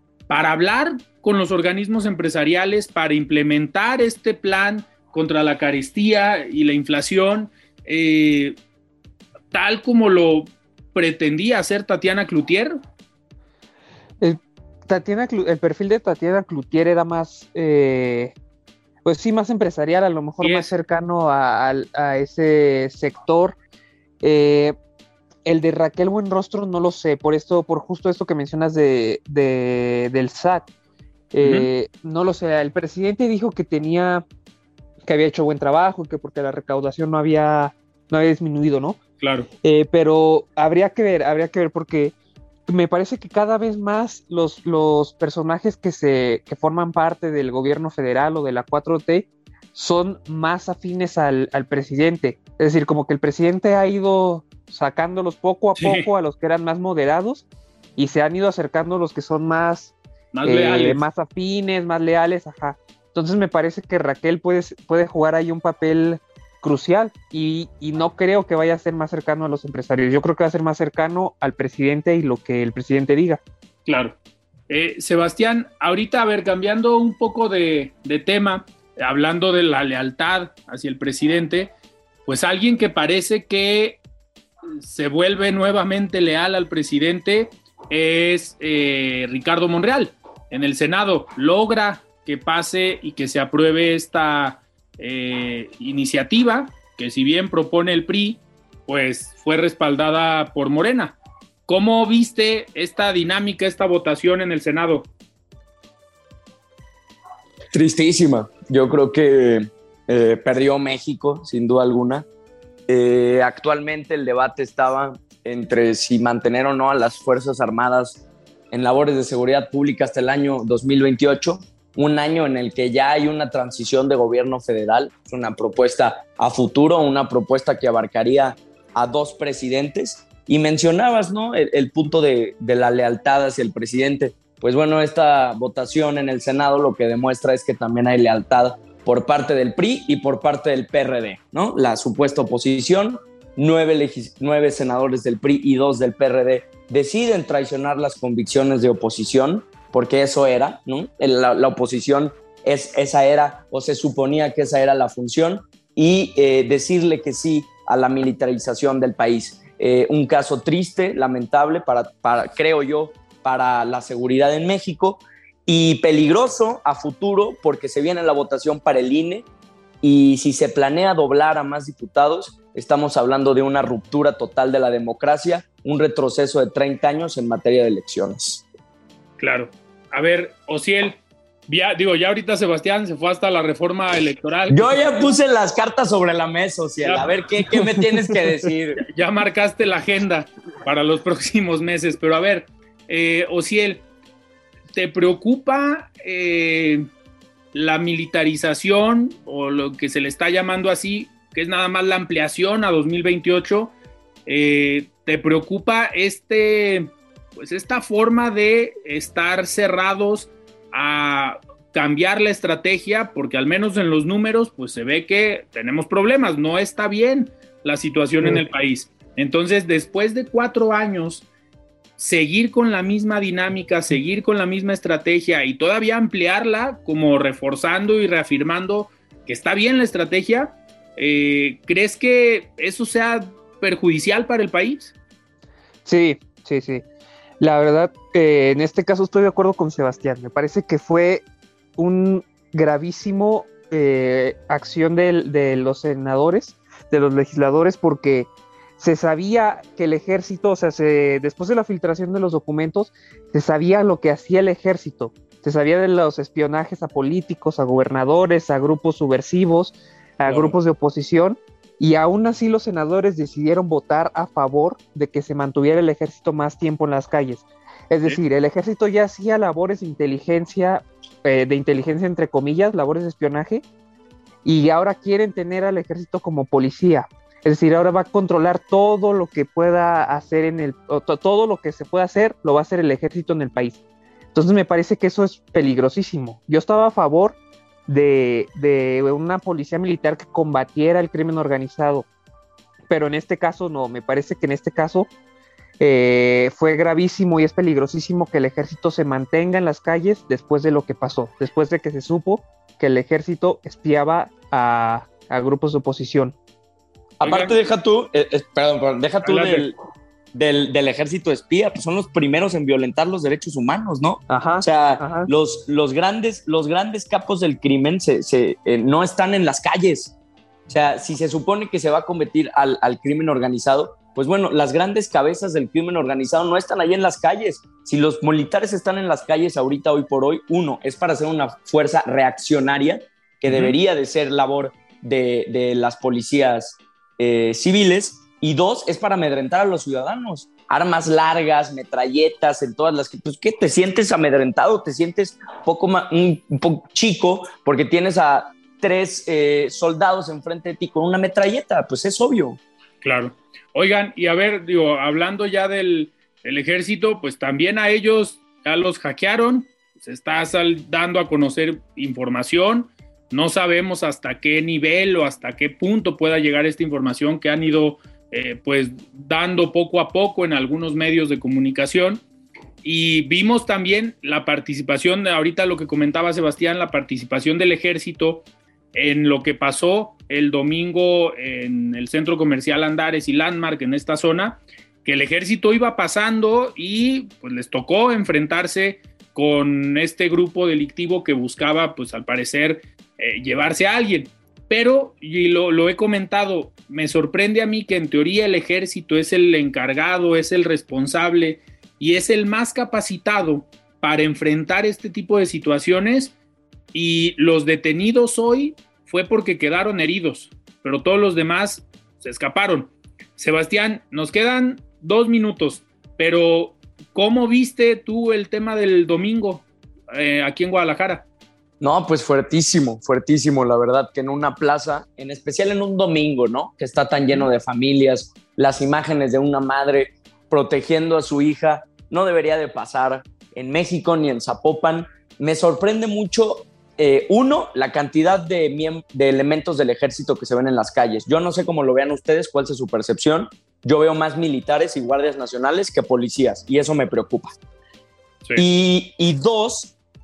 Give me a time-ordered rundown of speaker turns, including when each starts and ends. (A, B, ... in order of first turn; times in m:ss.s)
0:00.3-0:08.6 A
0:09.5-0:12.8 A
0:14.2-0:18.3 B
0:19.0-0:23.6 B
0:20.4-0:20.7 A
0:24.2-0:24.8 B
0:25.4-0:30.7 B
0:31.3-0:34.2 B
0:31.4-0:31.7 A
0:35.0-0:39.0 B
0:39.2-0:39.5 A
0:39.6-0:42.1 B
0:42.7-0:57.4 B
0:55.8-0:56.1 A
0:58.0-1:13.4 B
1:00.3-1:01.0 A
1:13.9-1:14.2 A
1:14.7-1:21.7 A
1:22.3-1:24.0 A
1:24.8-1:41.2 A
1:41.7-1:45.1 A
1:47.7-1:52.3 C
1:52.9-2:49.5 C
2:50.0-2:58.6 C
2:59.4-3:05.0 A
3:04.7-3:09.0 C
3:07.0-3:07.4 A
3:09.0-3:14.0 A
3:14.9-3:17.1 A
3:17.7-3:23.9 A
3:24.5-3:41.5 A
3:38.4-3:38.7 B
3:42.2-3:55.1 A
3:56.1-3:57.0 B
3:57.6-4:01.4 B
4:02.0-4:33.8 B
4:20.4-4:20.8 A
4:34.6-4:44.0 B
4:44.5-4:52.3 B
4:53.1-4:55.3 B
4:56.0-5:06.6 B
5:07.4-5:10.0 C
5:07.4-5:07.8 A
5:09.4-5:09.9 A
5:10.5-5:20.3 C
5:14.5-5:15.5 B
5:20.9-5:52.8 C
5:33.7-5:34.0 A
5:53.2-6:12.4 A
6:13.0-6:46.5 A
6:47.1-7:01.5 A
7:02.0-7:27.8 C
7:28.8-7:30.1 C